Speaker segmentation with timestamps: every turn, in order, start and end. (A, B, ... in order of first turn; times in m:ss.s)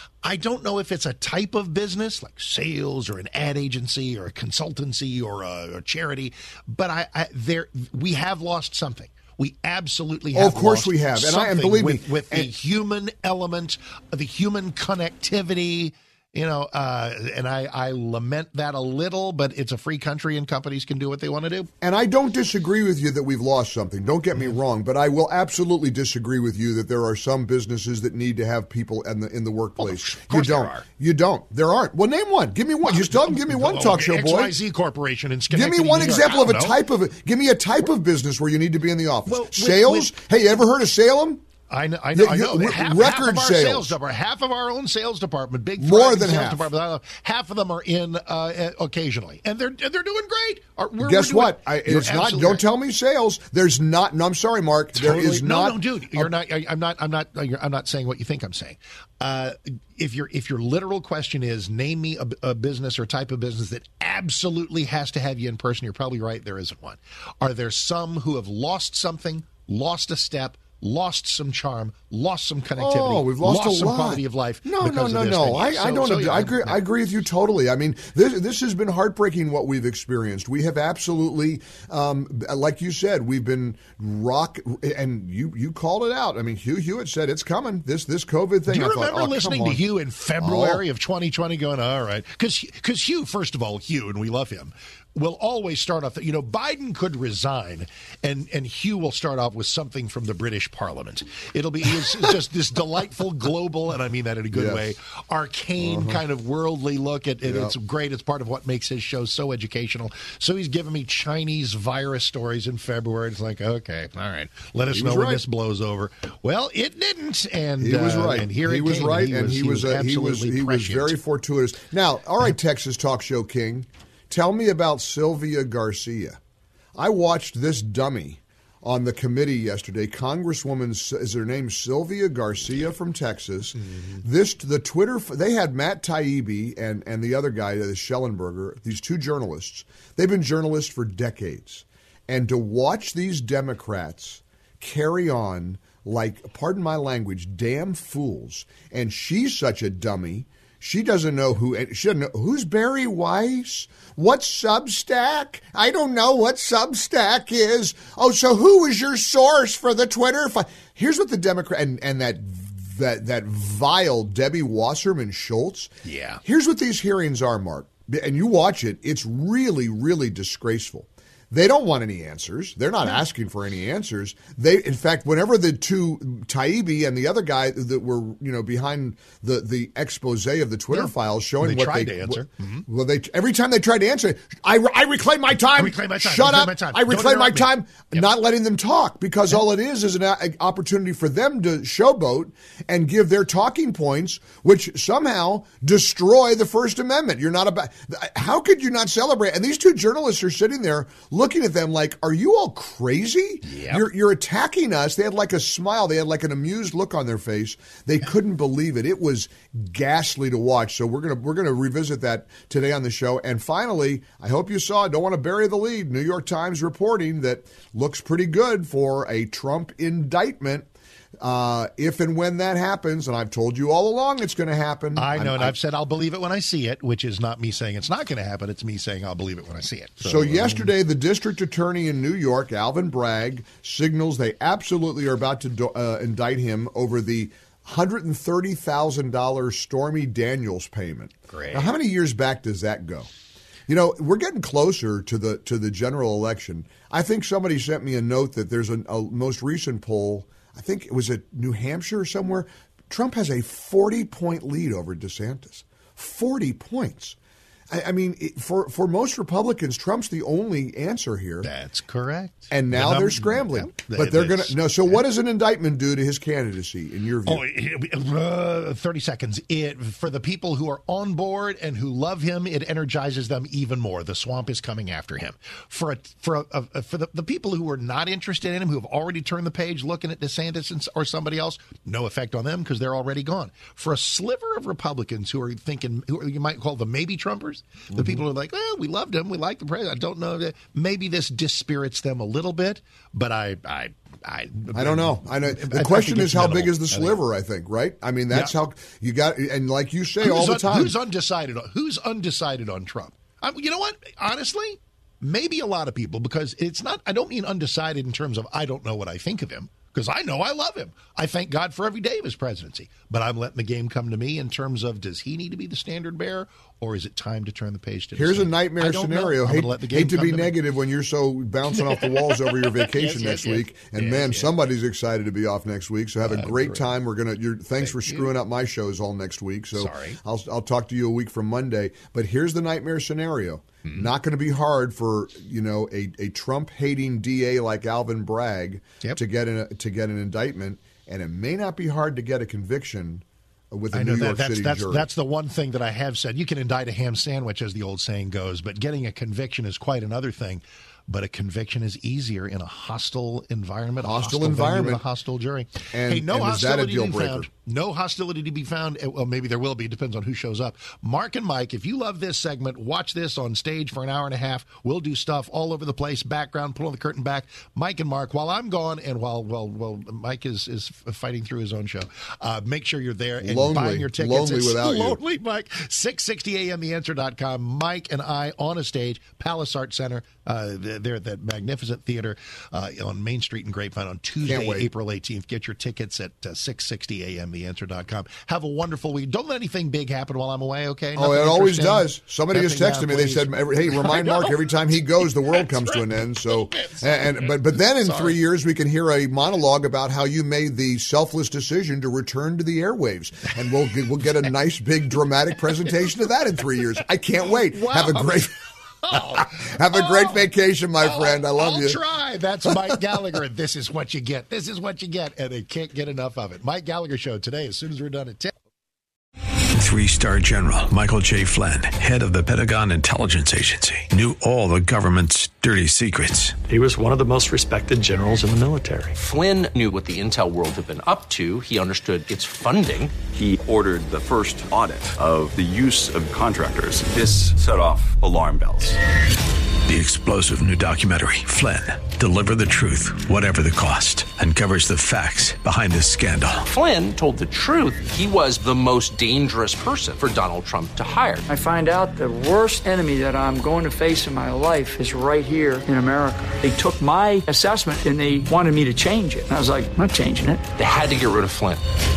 0:00.2-0:21.7 A
0:10.3-0:12.5 B
0:21.8-0:34.6 B
0:29.8-0:30.8 A
0:32.8-0:36.8 A
0:35.5-0:41.4 B
0:39.2-0:40.1 A
0:41.7-0:52.6 A
0:42.1-0:43.9 B
0:45.8-0:46.7 B
0:51.0-0:56.3 B
0:54.9-1:16.8 A
1:12.8-1:29.8 B
1:28.7-2:01.2 A
1:30.4-1:30.8 B
1:44.5-1:44.9 B
1:45.8-1:46.2 B
1:47.4-1:47.7 B
1:54.9-1:55.4 B
1:57.8-2:06.4 B
2:07.0-2:45.9 B
2:13.8-2:14.2 A
2:46.0-2:46.4 A
2:46.4-3:40.9 B
3:00.9-3:02.8 A
3:05.6-3:08.3 A
3:23.6-3:24.0 A
3:41.4-3:45.8 B
3:45.2-3:50.9 A
3:50.2-4:03.3 B
4:01.5-4:01.9 A
4:03.9-4:17.4 B
4:17.9-4:21.7 B
4:21.6-4:25.2 A
4:22.7-4:27.6 B
4:27.4-4:57.4 A
4:48.1-4:48.4 B
4:54.9-5:01.2 B
5:00.4-5:20.8 A
5:18.3-5:45.3 B
5:22.1-5:24.7 A
5:26.4-5:27.1 A
5:28.0-5:28.5 A
5:29.9-5:30.4 A
5:44.1-6:38.6 A
5:54.2-5:55.2 B
5:56.1-5:57.7 B
6:13.6-6:15.4 B
6:24.6-6:25.1 B
6:31.4-6:48.7 B
6:47.6-6:58.7 A
6:49.3-6:52.2 B
6:59.9-7:06.8 C
7:06.8-7:09.3 D
7:09.4-7:13.4 E
7:13.5-7:19.2 F
7:20.0-7:26.8 C
7:26.8-7:31.7 E
7:31.7-7:40.8 G
7:41.0-7:42.0 E